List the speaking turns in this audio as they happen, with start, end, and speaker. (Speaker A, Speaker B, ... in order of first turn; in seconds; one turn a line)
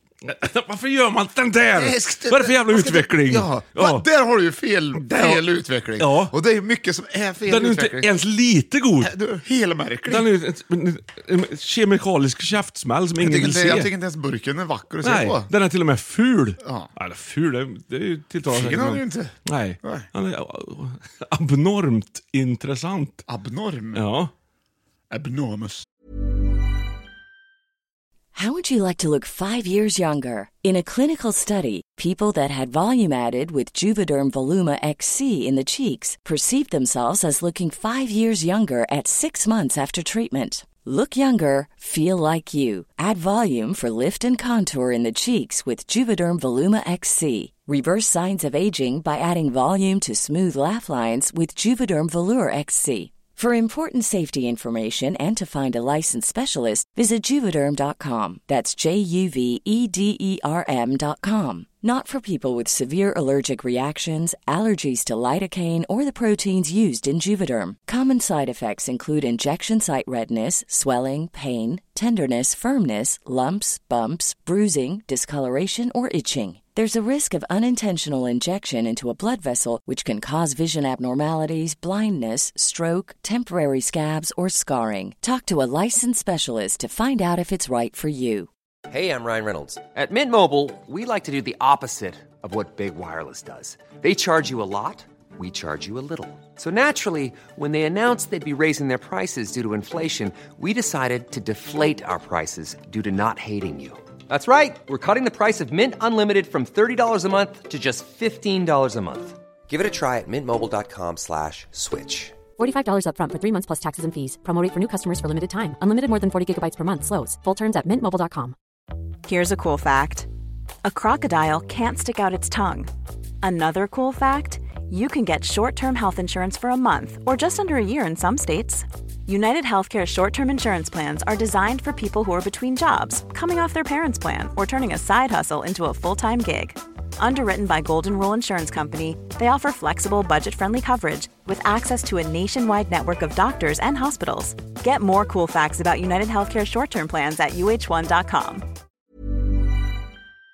Speaker A: 0.2-4.0
Speaker B: 1.7-8.1
Speaker A: 5.0-5.4
Speaker A: 6.0-6.3
Speaker A: 7.5-9.1
Speaker B: 9.0-10.3
Speaker A: 10.1-13.9
Speaker B: 13.2-15.5
Speaker A: 15.0-23.2
Speaker B: 16.6-16.9
Speaker B: 18.5-20.1
Speaker B: 23.3-24.1
Speaker A: 23.9-24.3
Speaker B: 25.1-25.8
Speaker C: 28.3-88.5
Speaker D: 88.9-112.4
Speaker E: 112.6-118.5
Speaker F: 119.2-120.3
Speaker F: 120.8-122.9
Speaker F: 123.4-148.7